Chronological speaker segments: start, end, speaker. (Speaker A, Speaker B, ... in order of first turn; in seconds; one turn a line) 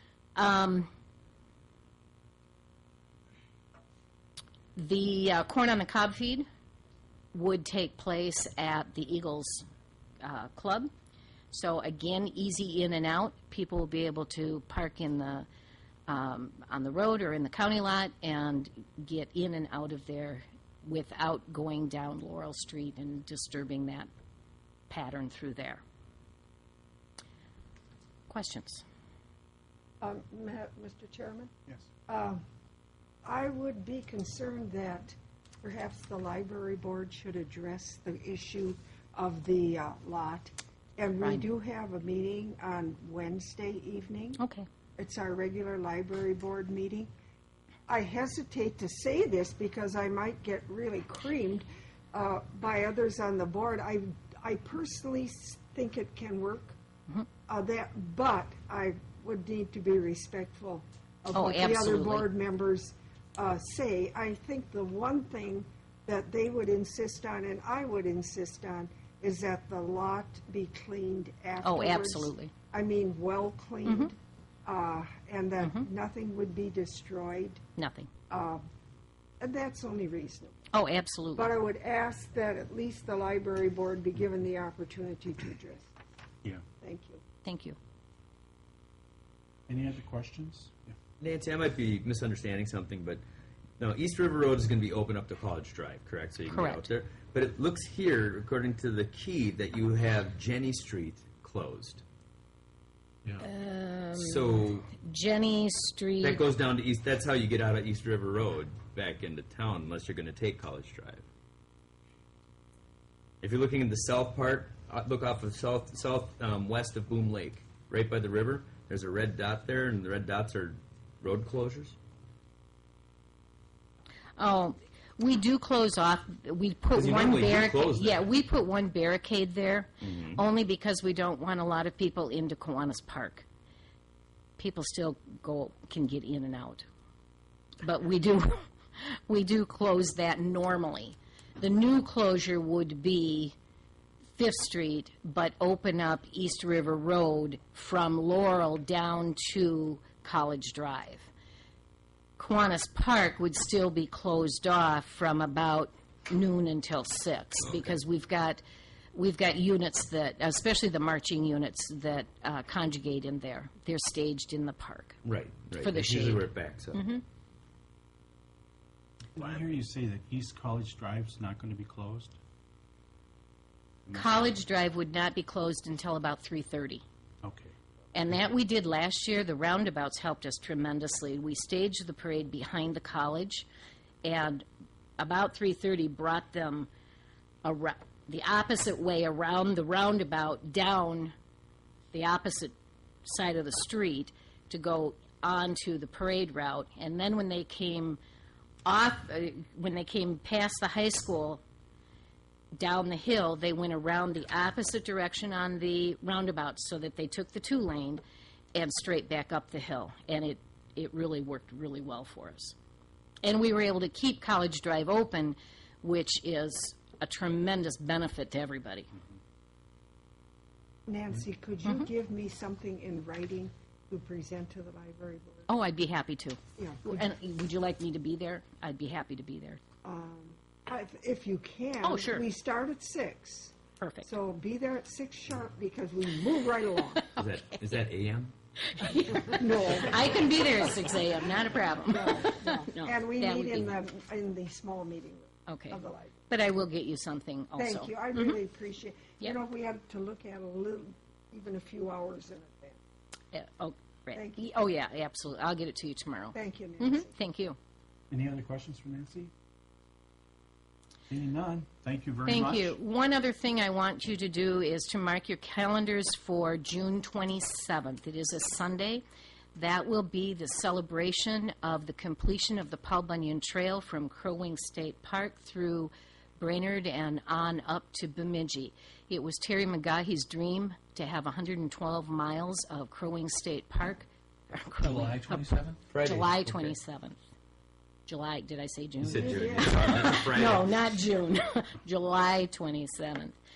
Speaker A: 0.3-0.9
Speaker A: 4.8-6.5
Speaker A: 7.3-9.7
Speaker A: 10.2-10.9
Speaker A: 11.5-15.5
Speaker A: 16.1-24.1
Speaker A: 24.9-25.8
Speaker A: 28.3-28.8
Speaker B: 30.0-31.5
Speaker B: 32.1-32.4
Speaker B: 33.2-44.4
Speaker A: 41.2-41.5
Speaker A: 44.4-44.7
Speaker B: 45.0-47.1
Speaker B: 47.9-56.8
Speaker B: 57.5-77.6
Speaker A: 61.3-62.3
Speaker A: 71.6-72.5
Speaker A: 73.8-74.1
Speaker A: 75.6-75.9
Speaker A: 77.8-78.1
Speaker B: 78.3-78.6
Speaker B: 79.4-80.5
Speaker A: 80.7-81.5
Speaker B: 81.3-85.9
Speaker B: 86.8-87.2
Speaker A: 87.4-87.8
Speaker C: 89.7-91.0
Speaker D: 91.2-93.2
Speaker D: 93.8-102.0
Speaker A: 96.5-96.9
Speaker A: 103.4-106.4
Speaker D: 104.2-104.9
Speaker D: 106.2-111.2
Speaker D: 113.4-122.0
Speaker A: 124.4-133.4
Speaker D: 126.9-128.2
Speaker D: 130.0-130.4
Speaker A: 134.6-136.8
Speaker A: 137.8-143.6
Speaker A: 144.3-151.3
Speaker A: 152.4-158.6
Speaker A: 159.1-165.2
Speaker D: 165.2-167.0
Speaker A: 165.8-167.2
Speaker C: 169.3-172.4
Speaker A: 174.1-177.0
Speaker C: 177.4-177.7
Speaker A: 178.1-183.7
Speaker A: 184.2-184.6
Speaker A: 185.2-186.9
Speaker A: 187.6-191.3
Speaker A: 192.1-198.2
Speaker A: 198.8-201.6
Speaker A: 202.7-208.2
Speaker A: 208.7-212.8
Speaker A: 213.4-219.1
Speaker B: 221.1-225.7
Speaker A: 225.7-229.8
Speaker B: 226.8-227.3
Speaker B: 230.0-237.3
Speaker A: 232.0-232.4
Speaker A: 234.0-234.3
Speaker D: 237.4-238.5
Speaker A: 238.8-243.9
Speaker B: 239.5-240.5
Speaker B: 242.0-246.5
Speaker A: 245.7-248.6
Speaker B: 247.8-253.0
Speaker A: 253.5-257.8
Speaker B: 254.3-254.7
Speaker B: 256.5-257.3
Speaker C: 258.3-259.5
Speaker C: 261.3-262.9
Speaker A: 262.4-269.2
Speaker A: 269.7-287.4
Speaker C: 285.0-286.0
Speaker D: 286.1-286.9
Speaker A: 288.2-293.5
Speaker D: 289.2-290.9
Speaker B: 289.4-290.2